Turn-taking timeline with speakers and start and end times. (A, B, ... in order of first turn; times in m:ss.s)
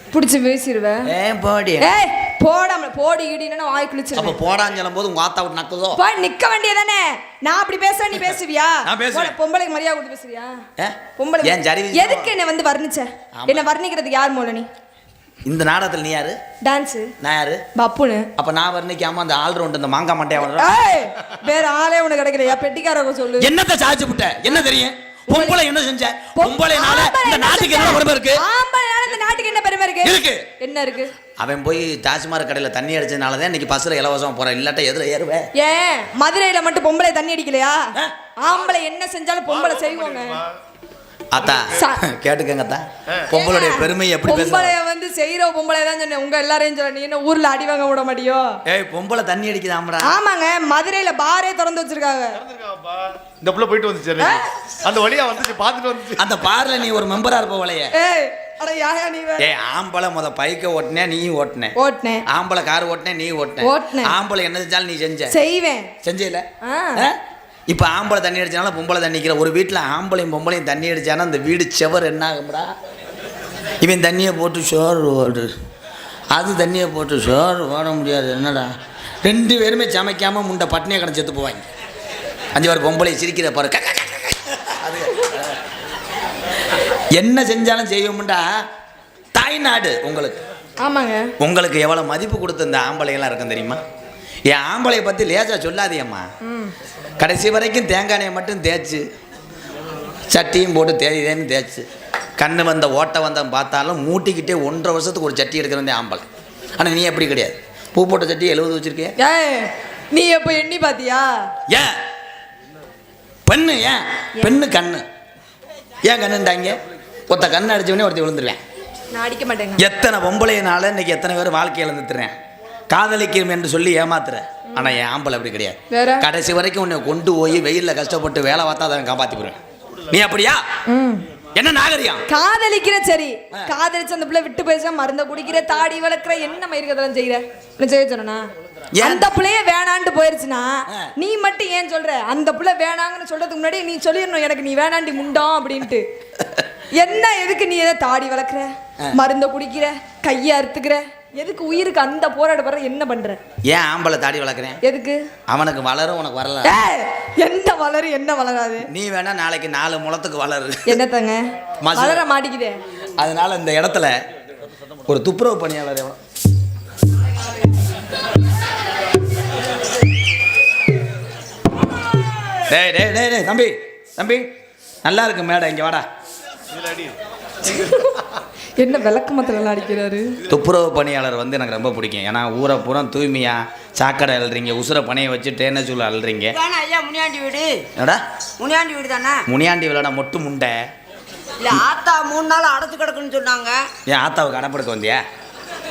0:00.1-0:01.1 A
0:01.1-0:01.9 B
0:01.8-0:04.4 A
0:04.1-0:06.0 B
0:06.0-0:10.6 A
0:08.8-0:09.3 B
0:10.8-0:12.3 B
0:11.2-0:14.7 A
0:13.4-0:13.7 B
0:15.4-0:16.4 B
0:16.6-0:17.1 A
0:17.2-0:17.6 B
0:17.8-0:18.3 A
0:18.4-0:20.7 B
0:20.4-0:23.5 A
0:23.4-0:28.4 B
0:25.3-0:25.6 A
0:26.4-0:31.1 A
0:30.0-0:30.4 B
0:31.4-0:35.5 B
0:35.6-0:37.8 A
0:38.4-0:40.4 A
0:38.5-0:38.8 C
0:39.5-0:40.6 C
0:41.3-0:44.8 B
0:41.4-0:41.8 C
0:43.3-0:48.6 A
0:48.7-0:50.2 B
0:50.0-0:52.4 A
0:52.4-0:56.3 C
0:54.2-0:54.5 A
0:56.2-0:57.9 B
0:58.0-0:59.5 A
0:59.4-1:01.7 B
1:01.8-1:02.2 A
1:02.3-1:05.4 B
1:03.6-1:04.2 A
1:05.3-1:05.9 A
1:06.0-1:06.4 B
1:06.6-1:07.1 A
1:07.0-1:12.7 B
1:13.8-1:15.5 B
1:16.3-1:18.7 B
1:19.2-1:21.7 B
1:22.5-1:25.5 B
1:27.1-1:28.5 B
1:29.3-1:30.4 B
1:30.8-1:31.3 A
1:31.4-1:33.8 B
1:34.5-1:36.3 B
1:36.4-1:36.7 A
1:37.2-1:39.0 B
1:40.3-1:41.8 B
1:42.4-1:46.2 B
1:46.8-1:49.1 B
1:49.2-1:51.5 A
1:51.7-1:52.0 B
1:53.5-1:55.0 B
1:56.0-1:58.6 B
1:59.1-1:59.8 A
1:59.8-2:02.3 B
2:02.9-2:10.6 B
2:05.9-2:06.2 A
2:10.9-2:11.2 A
2:11.5-2:12.2 B
2:12.3-2:18.5 A
2:18.9-2:19.3 B
2:19.0-2:26.1 A
2:26.9-2:33.4 A
2:33.7-2:34.8 B
2:34.8-2:35.2 A
2:35.5-2:36.8 B
2:36.6-2:38.9 A
2:38.9-2:40.9 B
2:40.9-2:42.8 A
2:41.8-2:42.2 B
2:43.2-2:44.1 B
2:45.1-2:46.2 B
2:52.7-2:54.5 B
2:55.0-2:56.0 B
2:56.7-2:57.2 C
2:57.6-2:58.2 A
2:58.8-3:00.4 A
3:00.5-3:06.6 B
3:06.5-3:07.8 D
3:08.6-3:09.4 D
3:09.5-3:10.8 B
3:11.6-3:13.8 D
3:14.1-3:15.2 B